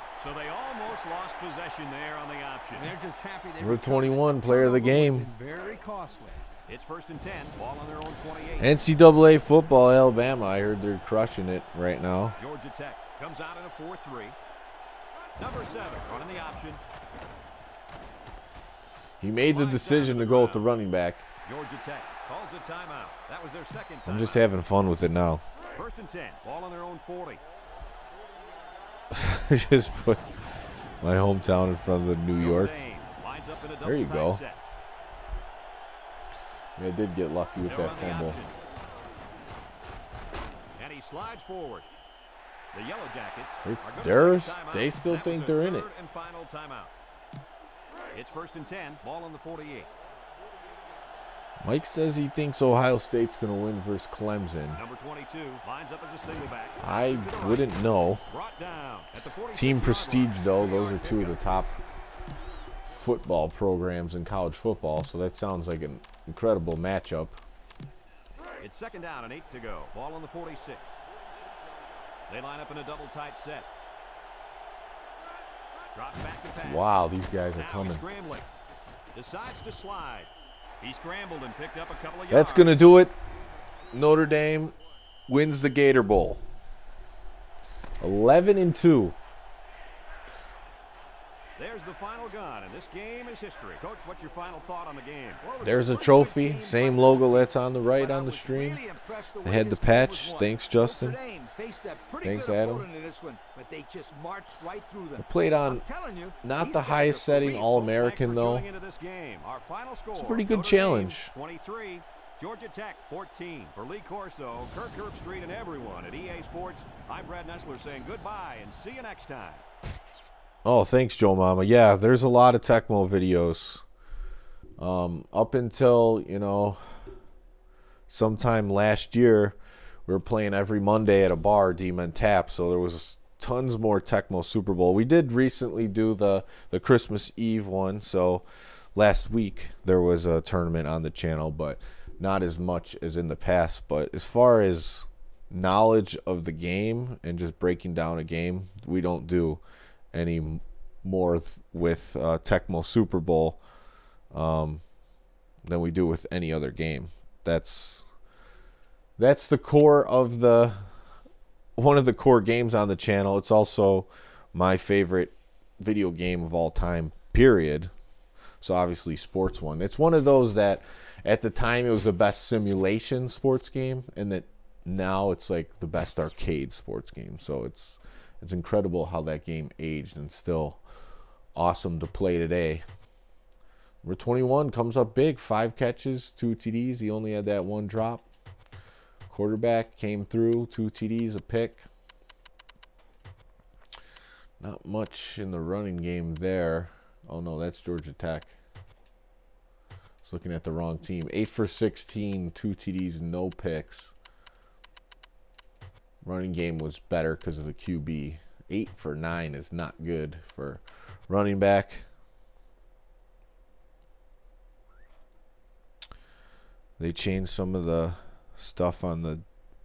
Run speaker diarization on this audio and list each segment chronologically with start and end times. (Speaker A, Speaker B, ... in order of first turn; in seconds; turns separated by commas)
Speaker A: 0.2-2.9, Speaker B: 2.8-6.5, Speaker C: 3.6-5.3, Speaker A: 6.7-8.8, Speaker C: 8.6-12.4, Speaker A: 12.4-14.4, Speaker A: 15.4-16.8, Speaker C: 19.2-21.3, Speaker A: 19.5-20.7, Speaker A: 21.4-24.5, Speaker C: 24.1-25.4, Speaker A: 25.8-27.4, Speaker C: 29.1-32.8, Speaker A: 32.4-34.6, Speaker C: 33.8-34.4, Speaker C: 36.8-38.4, Speaker A: 37.7-38.5, Speaker A: 40.8-41.9, Speaker A: 42.7-46.9, Speaker C: 43.6-45.9, Speaker A: 48.1-49.9, Speaker C: 51.6-54.8, Speaker A: 54.8-57.7, Speaker C: 56.8-58.2, Speaker A: 58.3-61.4, Speaker C: 59.5-61.8, Speaker C: 62.8-67.4, Speaker A: 68.6-71.0, Speaker A: 72.3-73.7, Speaker A: 75.9-76.9, Speaker C: 76.6-78.0, Speaker A: 77.5-78.5, Speaker A: 79.1-82.9, Speaker C: 82.3-83.2, Speaker C: 83.9-84.8, Speaker C: 85.3-86.4, Speaker C: 88.0-89.2, Speaker A: 91.6-95.4, Speaker D: 95.4-107.6, Speaker C: 95.6-98.8, Speaker C: 99.4-101.2, Speaker C: 102.2-102.9, Speaker C: 105.2-105.8, Speaker C: 106.4-108.7, Speaker A: 107.3-119.6, Speaker C: 110.1-111.3, Speaker C: 120.7-123.8, Speaker C: 124.8-127.0, Speaker C: 128.1-149.6, Speaker C: 150.1-153.6, Speaker C: 154.3-154.8, Speaker C: 155.6-158.1, Speaker C: 159.2-160.9, Speaker C: 161.8-167.9, Speaker C: 168.6-180.8, Speaker C: 181.6-182.8, Speaker C: 184.0-188.3, Speaker C: 189.3-191.9, Speaker C: 194.6-198.5, Speaker C: 200.2-204.1, Speaker C: 206.2-212.1, Speaker C: 217.0-219.4